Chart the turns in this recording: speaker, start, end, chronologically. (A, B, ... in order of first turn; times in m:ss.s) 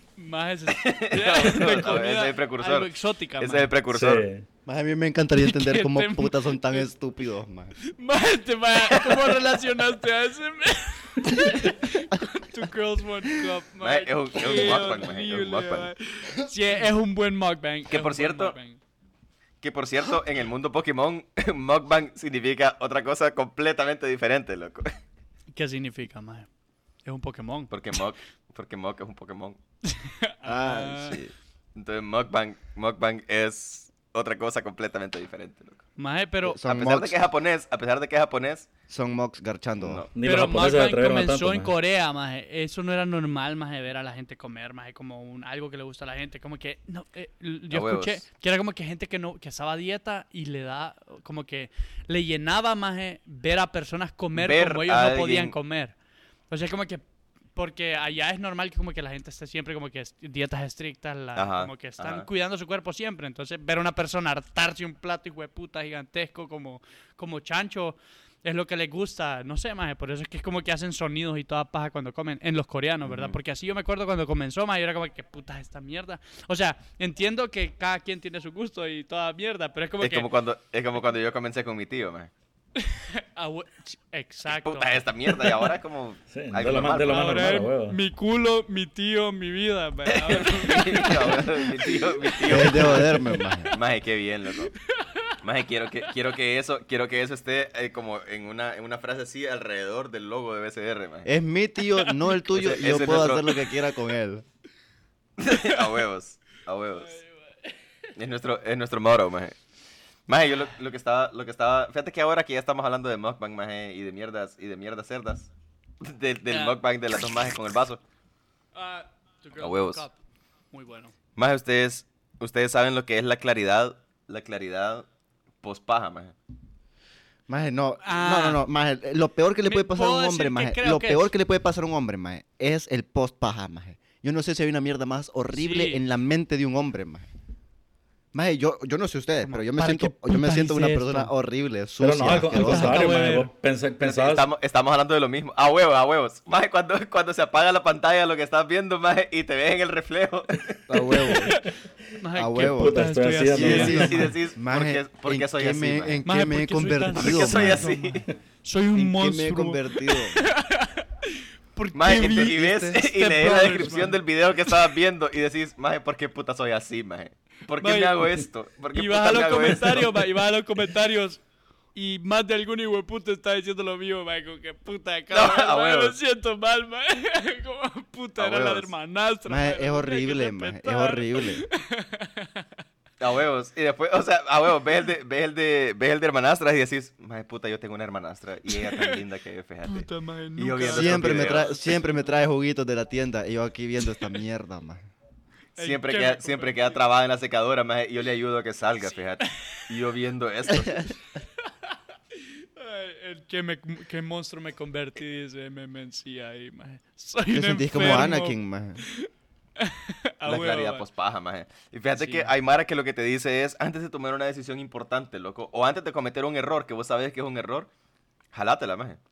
0:00.2-0:03.7 A
0:00.7-0:04.2 B
0:03.9-0:04.5 C
0:04.7-0:07.7 D
0:05.4-0:06.9 A
0:07.8-0:18.8 A
0:08.9-0:09.3 B
0:13.8-0:15.9 B
0:17.9-0:18.6 B
0:19.6-0:24.9 B
0:25.5-0:26.5 A
0:27.0-0:27.9 A
0:27.7-0:29.6 B
0:29.9-0:31.2 A
0:30.4-0:31.3 D
0:31.8-0:35.8 B
0:36.0-0:36.6 A
0:36.4-0:37.2 D
0:36.6-0:38.7 B
0:38.9-0:40.1 D
0:39.8-0:40.1 B
0:40.1-0:41.7 C
0:40.2-0:56.0 A
0:47.7-0:48.2 B
0:54.4-0:55.6 B
0:56.5-1:20.3 A
1:01.4-1:02.3 B
1:13.0-1:13.4 B
1:20.0-1:22.3 B
1:22.8-1:25.7 A
1:24.5-1:27.4 B
1:26.3-1:28.0 C
1:27.0-1:31.5 A
1:30.1-1:34.7 B
1:32.2-1:33.8 A
1:32.4-1:33.7 D
1:34.8-1:35.4 A
1:35.4-1:41.3 B
1:41.2-1:44.4 D
1:41.9-1:42.3 A
1:42.5-1:43.7 B
1:45.4-1:47.2 B
1:45.5-1:45.8 A
1:47.0-1:47.7 A
1:48.2-1:49.6 B
1:50.3-1:55.5 B
1:56.0-1:58.0 B
1:56.5-1:56.8 A
1:58.8-2:00.2 A
1:59.6-2:00.0 B
2:00.7-2:01.1 A
2:01.4-2:05.1 B
2:05.6-2:06.3 B
2:07.5-2:17.3 D
2:08.0-2:08.6 A
2:09.6-2:11.3 A
2:15.5-2:16.0 A
2:18.3-2:23.2 D
2:19.4-2:21.3 A
2:22.0-2:24.5 C
2:22.5-2:23.5 A
2:24.0-2:31.2 B
2:30.9-2:31.6 D
2:31.1-2:31.7 C
2:32.2-2:34.3 A
2:32.4-2:33.0 D
2:32.5-2:34.3 C
2:33.5-2:37.9 D
2:33.6-2:36.2 B
2:36.2-2:44.8 A
2:37.2-2:38.3 B
2:39.0-2:40.5 D
2:41.9-2:50.2 B
2:42.2-2:42.9 D
2:47.8-2:48.3 A
2:48.9-2:51.4 A
2:52.0-3:02.7 A
2:55.3-2:56.2 B
2:58.4-2:58.9 B
2:59.5-3:01.6 D
3:03.2-3:12.0 B
3:08.7-3:09.2 A
3:09.9-3:11.7 A
3:10.9-3:15.1 D
3:15.8-3:16.9 A
3:15.8-3:21.1 B
3:22.4-3:31.0 A
3:27.5-3:29.0 D
3:30.4-3:37.9 B
3:32.2-3:32.5 A
3:38.5-3:39.2 B